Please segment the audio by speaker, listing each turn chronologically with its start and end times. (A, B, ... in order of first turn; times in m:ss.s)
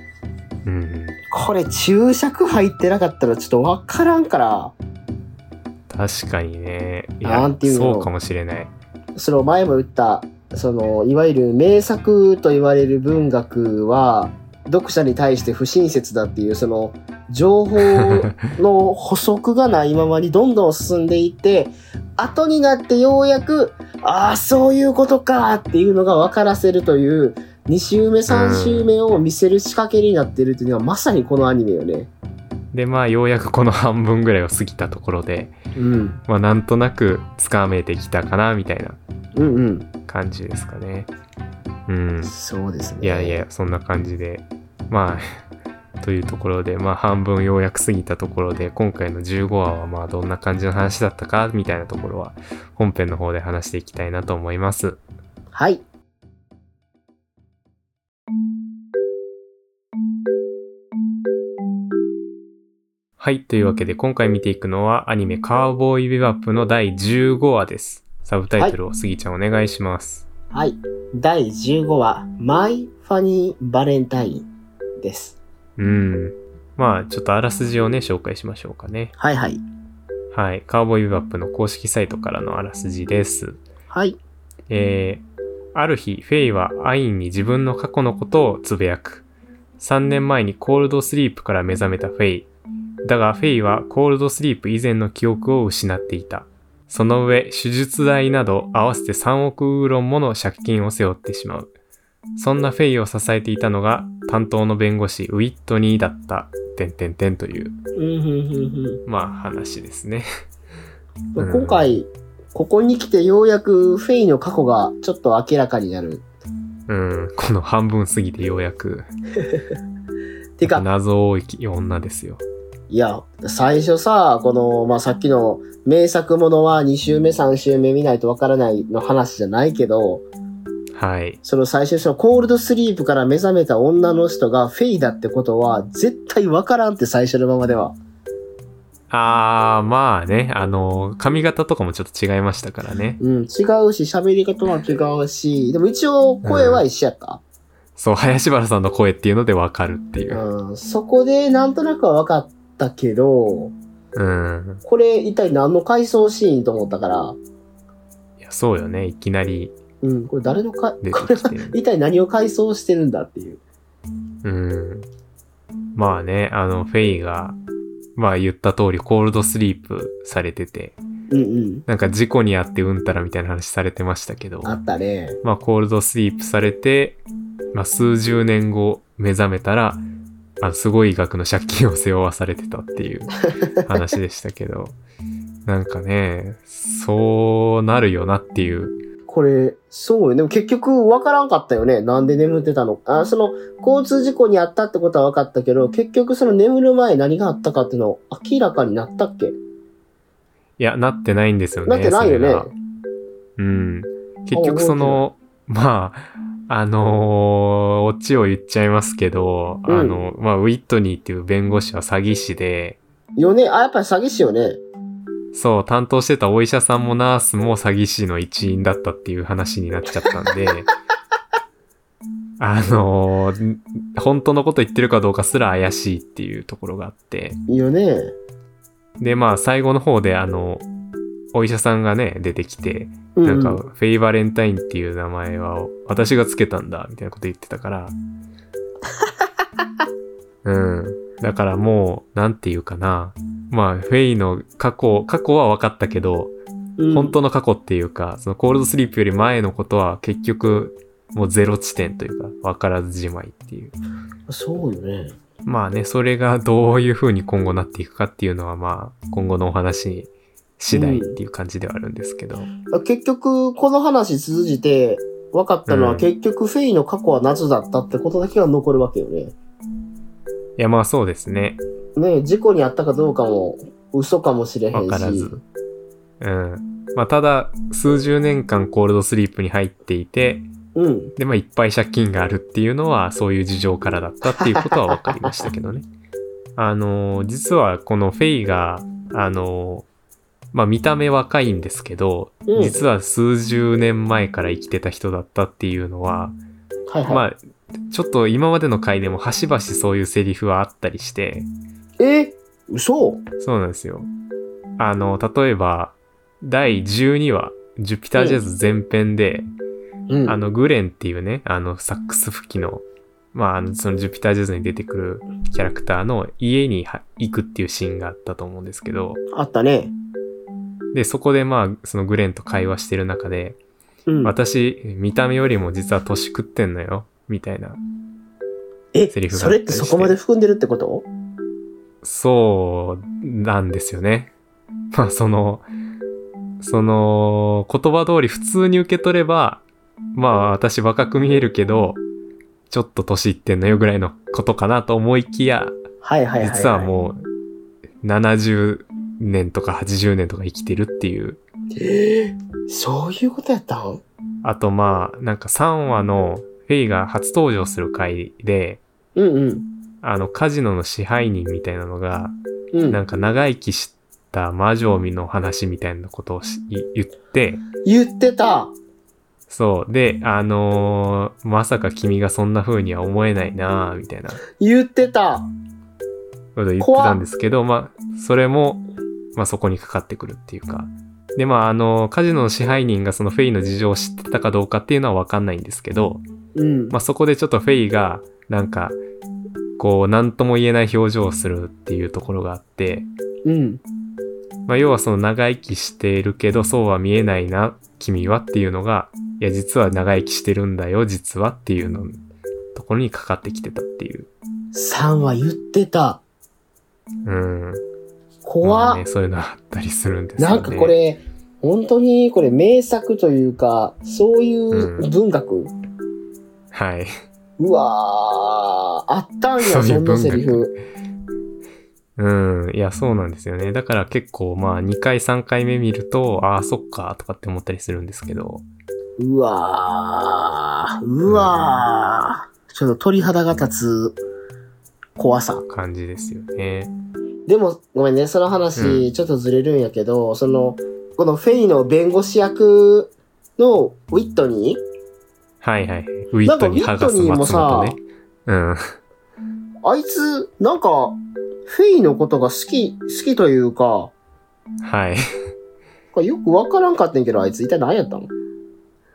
0:00.6-0:01.2 A
0:01.3-0:04.7 B
0:05.9-0:08.7 A
0:07.2-0:08.1 B
0:09.1-0:32.1 B
0:18.1-0:18.3 A
0:28.3-0:28.9 A
0:32.7-0:35.5 A
0:35.8-0:36.2 B
0:36.3-0:39.0 A
0:39.3-0:39.9 B
0:40.1-0:41.1 A
0:41.9-0:42.3 A
0:42.2-0:43.4 B
0:43.0-0:45.2 A
0:46.0-0:55.0 A
0:55.5-0:55.8 B
1:03.2-1:10.3 A
1:10.5-1:14.5 B
1:15.0-1:15.4 B
1:15.8-1:19.1 A
1:19.2-1:19.6 B
1:20.3-1:23.6 A
1:23.9-1:24.2 B
1:24.7-1:29.2 A
1:29.8-1:32.5 A
1:33.0-1:41.7 A
1:42.4-1:47.7 A
1:48.0-1:49.0 B
1:49.0-1:50.3 A
1:51.3-1:56.2 B
1:51.4-1:51.9 A
1:56.9-1:59.1 A
2:00.6-2:00.8 B
2:00.7-2:02.4 A
2:02.9-2:10.2 B
2:10.9-2:11.4 A
2:11.4-2:18.0 B
2:19.1-2:23.2 A
2:23.2-2:27.4 B
2:26.4-2:26.8 A
2:28.0-2:30.4 A
2:30.3-2:33.7 B
2:34.1-2:34.8 A
2:34.8-2:37.4 B
2:38.4-2:39.8 A
2:40.0-2:43.6 B
2:41.0-2:41.8 A
2:44.4-2:45.1 A
2:45.9-2:47.6 A
2:48.2-2:51.0 A
2:51.3-2:51.8 B
2:51.9-2:54.8 A
2:54.6-2:55.4 B
2:55.4-2:57.2 A
2:57.7-3:00.0 A
3:00.6-3:03.3 A
3:03.8-3:05.0 A
3:05.6-3:09.0 A
3:09.3-3:19.6 B
3:20.8-3:22.7 A
3:21.8-3:22.7 B
3:23.6-3:33.0 A
3:24.5-3:25.2 B
3:29.9-3:30.2 B
3:33.4-3:34.8 B
3:35.5-3:40.9 A
3:40.5-3:40.8 B
3:42.6-3:47.6 A
3:47.7-3:48.3 B
3:49.2-3:50.8 A
3:51.5-3:58.2 A
3:53.3-3:53.8 B
4:00.6-4:06.5 A
4:07.0-4:07.4 B
4:07.1-4:13.9 A
4:14.5-4:15.4 B
4:15.6-4:22.7 A
4:20.9-4:21.4 B
4:22.9-4:29.5 B
4:25.9-4:26.3 A
4:30.8-4:31.8 A
4:32.2-4:35.5 B
4:34.9-4:35.6 A
4:36.4-4:40.7 A
4:40.9-4:41.3 B
4:41.4-4:46.1 A
4:44.5-4:45.4 B
4:46.8-4:50.1 A
4:50.7-4:56.6 A
4:52.7-4:53.0 B
4:57.1-4:57.4 B
4:57.3-5:01.7 A
5:02.2-5:03.4 B
5:03.6-5:04.3 A
5:05.0-5:09.7 A
5:10.3-5:10.6 B
5:10.4-5:19.4 A
5:19.5-5:20.1 B
5:21.1-5:23.8 A
5:24.3-5:24.5 B
5:24.4-5:28.0 A
5:29.1-5:31.3 B
5:29.3-5:30.4 A
5:32.2-5:34.5 A
5:35.1-5:35.9 A
5:36.8-5:42.2 A
5:42.9-5:46.0 A
5:46.2-5:47.1 B
5:46.6-5:47.4 A
5:48.2-5:51.6 A
5:52.0-5:54.2 B
5:54.6-5:59.0 A
5:59.4-5:59.8 B
6:00.2-6:02.6 A
6:02.9-6:03.2 B
6:03.1-6:07.8 A
6:08.0-6:08.9 B
6:09.7-6:14.6 A
6:14.8-6:15.7 B
6:16.8-6:19.0 A
6:17.0-6:17.4 B
6:19.6-6:26.4 A
6:26.8-6:27.2 B
6:27.1-6:29.2 A
6:30.0-6:33.3 A
6:33.6-6:34.0 B
6:34.9-6:42.4 A
6:42.9-6:44.5 A
6:44.9-6:46.4 B
6:47.4-6:48.0 A
6:48.6-6:49.2 B
6:48.8-6:51.2 A
6:50.6-6:55.9 B
6:54.9-6:55.3 A
6:56.9-6:57.3 A
6:57.8-7:00.9 B
6:59.8-7:00.9 A
7:02.4-7:08.8 A
7:09.4-7:14.4 B
7:11.5-7:12.0 A
7:15.4-7:15.8 B
7:15.8-7:17.1 A
7:17.7-7:25.0 B
7:19.0-7:19.3 A
7:25.8-7:29.2 A
7:26.6-7:28.2 B
7:30.0-7:34.3 B
7:35.0-7:35.4 A
7:36.3-7:38.5 B